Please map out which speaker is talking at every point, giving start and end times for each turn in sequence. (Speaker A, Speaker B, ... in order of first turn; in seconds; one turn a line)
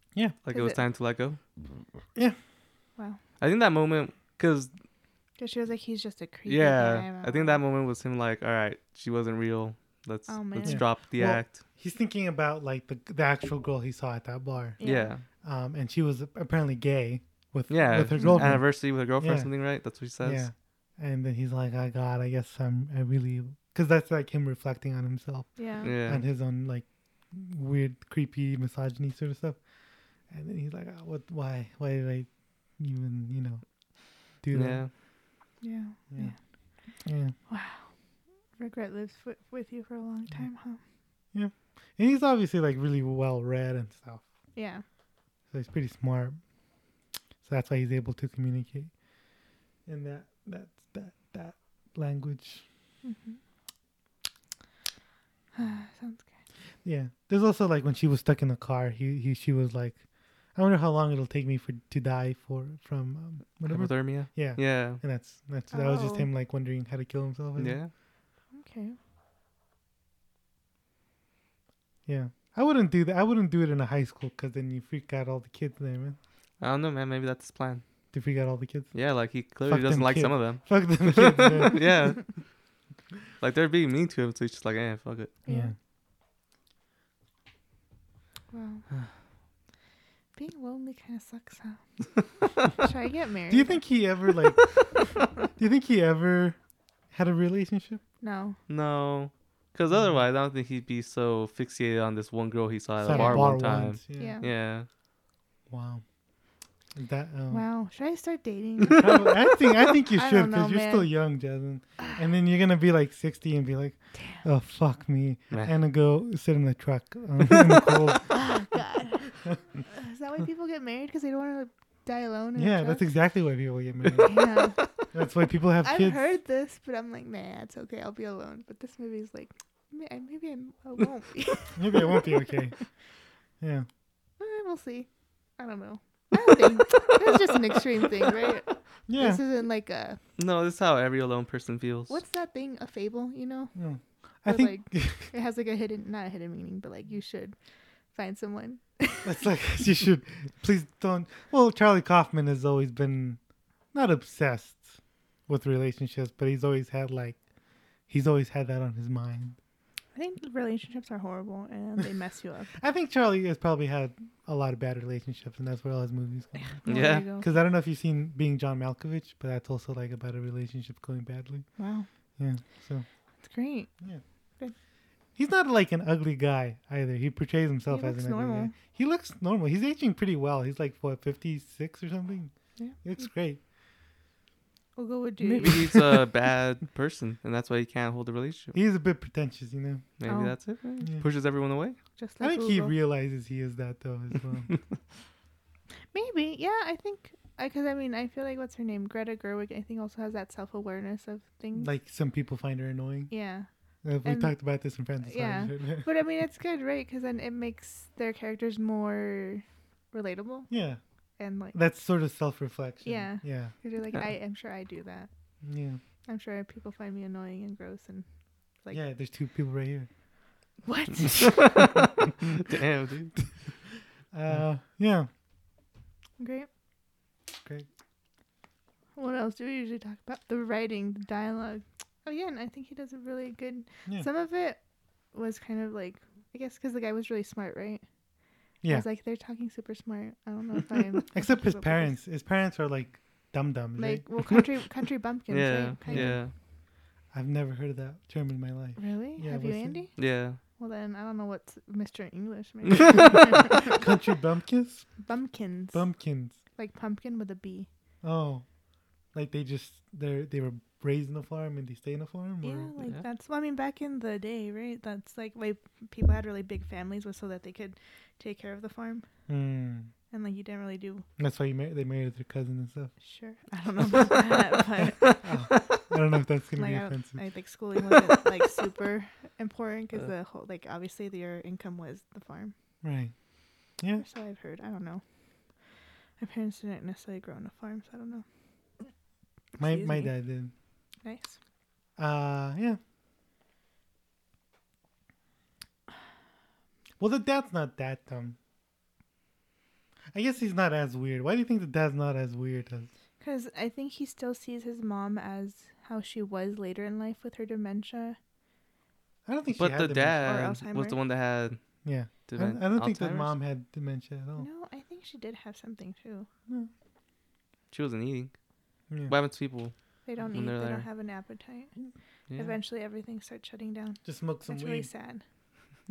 Speaker A: 0.4-1.4
Speaker B: 0.5-0.8
Speaker A: 3.4-4.7
Speaker B: 5.4-7.6
Speaker A: 6.5-11.6
Speaker B: 10.3-10.8
Speaker C: 10.6-14.8
Speaker B: 14.8-15.1
Speaker A: 14.8-15.2
Speaker C: 15.4-19.5
Speaker A: 17.7-20.5
Speaker B: 18.1-18.6
Speaker C: 20.2-29.6
Speaker B: 25.6-25.9
Speaker A: 25.8-26.2
Speaker C: 30.3-33.6
Speaker C: 34.4-34.9
Speaker A: 34.5-34.9
Speaker B: 35.6-36.4
Speaker C: 37.0-37.4
Speaker B: 37.5-37.9
Speaker B: 38.6-40.8
Speaker C: 41.3-44.3
Speaker B: 44.5-44.9
Speaker C: 45.5-46.4
Speaker C: 47.4-48.9
Speaker C: 49.9-52.6
Speaker B: 53.0-53.4
Speaker B: 55.5-56.3
Speaker C: 56.8-60.0
Speaker C: 60.5-67.8
Speaker A: 63.6-65.0
Speaker B: 65.7-66.3
Speaker A: 67.6-67.9
Speaker B: 68.5-69.0
Speaker C: 72.1-76.2
Speaker A: 76.6-77.8
Speaker C: 78.1-78.9
Speaker A: 78.9-82.4
Speaker C: 79.7-81.9
Speaker A: 83.4-85.4
Speaker B: 85.5-85.7
Speaker C: 85.5-85.7
Speaker B: 88.5-88.8
Speaker B: 90.4-93.9
Speaker C: 93.5-94.8
Speaker C: 95.6-96.6
Speaker C: 97.1-98.0
Speaker B: 98.2-98.6
Speaker A: 98.7-104.9
Speaker C: 99.9-100.2
Speaker C: 103.0-104.4
Speaker B: 103.1-103.6
Speaker B: 104.2-104.5
Speaker C: 105.7-106.0
Speaker C: 107.0-107.7
Speaker B: 107.5-111.1
Speaker C: 109.0-118.3
Speaker B: 114.2-114.4
Speaker B: 118.2-123.0
Speaker C: 122.6-124.5
Speaker B: 124.2-124.9
Speaker C: 125.1-126.3
Speaker B: 125.8-132.3
Speaker C: 131.7-132.8
Speaker C: 133.6-133.9
Speaker B: 134.4-140.2
Speaker C: 139.1-139.4
Speaker A: 140.4-142.2
Speaker B: 142.1-143.8
Speaker C: 143.8-145.3
Speaker B: 144.5-147.6
Speaker B: 148.1-149.3
Speaker C: 149.2-153.4
Speaker C: 153.9-154.9
Speaker C: 155.5-157.4
Speaker C: 158.1-159.6
Speaker B: 160.1-162.7
Speaker C: 162.8-171.7
Speaker B: 166.6-167.5
Speaker A: 166.9-167.2
Speaker B: 171.8-172.1
Speaker C: 172.4-173.1
Speaker B: 173.4-174.0
Speaker C: 175.4-183.6
Speaker B: 177.9-178.8
Speaker B: 182.8-183.3
Speaker B: 185.0-186.0
Speaker A: 185.6-188.8
Speaker C: 185.6-186.0
Speaker C: 188.7-190.0
Speaker A: 190.2-192.0
Speaker B: 190.3-191.0
Speaker B: 192.2-192.9
Speaker C: 192.4-194.7
Speaker B: 196.1-201.9
Speaker C: 201.8-203.3
Speaker B: 203.3-203.7
Speaker C: 204.0-206.1
Speaker B: 204.2-204.5
Speaker B: 205.2-210.7
Speaker C: 210.7-211.0
Speaker B: 211.4-211.8
Speaker C: 211.7-213.8
Speaker B: 213.0-215.3
Speaker C: 215.6-216.0
Speaker B: 216.2-218.2
Speaker C: 218.9-220.1
Speaker B: 220.8-221.7
Speaker A: 221.4-223.5
Speaker C: 224.3-225.3
Speaker B: 226.4-226.7
Speaker C: 227.6-227.9
Speaker B: 229.2-234.8
Speaker B: 235.3-238.0
Speaker B: 238.9-242.2
Speaker C: 241.3-244.6
Speaker B: 244.0-246.4
Speaker A: 245.5-246.5
Speaker C: 246.1-246.4
Speaker C: 247.3-250.0
Speaker B: 249.0-254.0
Speaker A: 250.2-250.6
Speaker C: 253.9-255.2
Speaker B: 255.2-256.0
Speaker C: 255.9-256.6
Speaker B: 256.8-257.9
Speaker C: 258.2-258.6
Speaker C: 259.3-262.9
Speaker B: 262.6-269.2
Speaker C: 269.5-270.1
Speaker B: 270.3-271.3
Speaker C: 271.4-273.1
Speaker B: 273.2-275.5
Speaker C: 275.4-277.4
Speaker B: 276.8-282.7
Speaker C: 283.0-283.3
Speaker C: 284.0-284.2
Speaker B: 284.2-285.2
Speaker B: 286.4-288.4
Speaker B: 289.8-290.3
Speaker C: 289.8-290.7
Speaker B: 291.2-291.6
Speaker C: 292.2-293.0
Speaker C: 297.2-298.6
Speaker C: 300.3-303.1
Speaker B: 303.4-308.4
Speaker C: 309.5-310.5
Speaker A: 309.8-311.8
Speaker B: 310.4-311.2
Speaker C: 312.0-314.7
Speaker A: 312.5-313.5
Speaker B: 314.6-316.5
Speaker A: 317.9-318.5
Speaker C: 319.1-319.4
Speaker A: 319.3-319.9
Speaker B: 320.2-321.9
Speaker A: 320.5-321.1
Speaker A: 322.5-322.8
Speaker B: 322.6-325.4
Speaker C: 324.2-325.1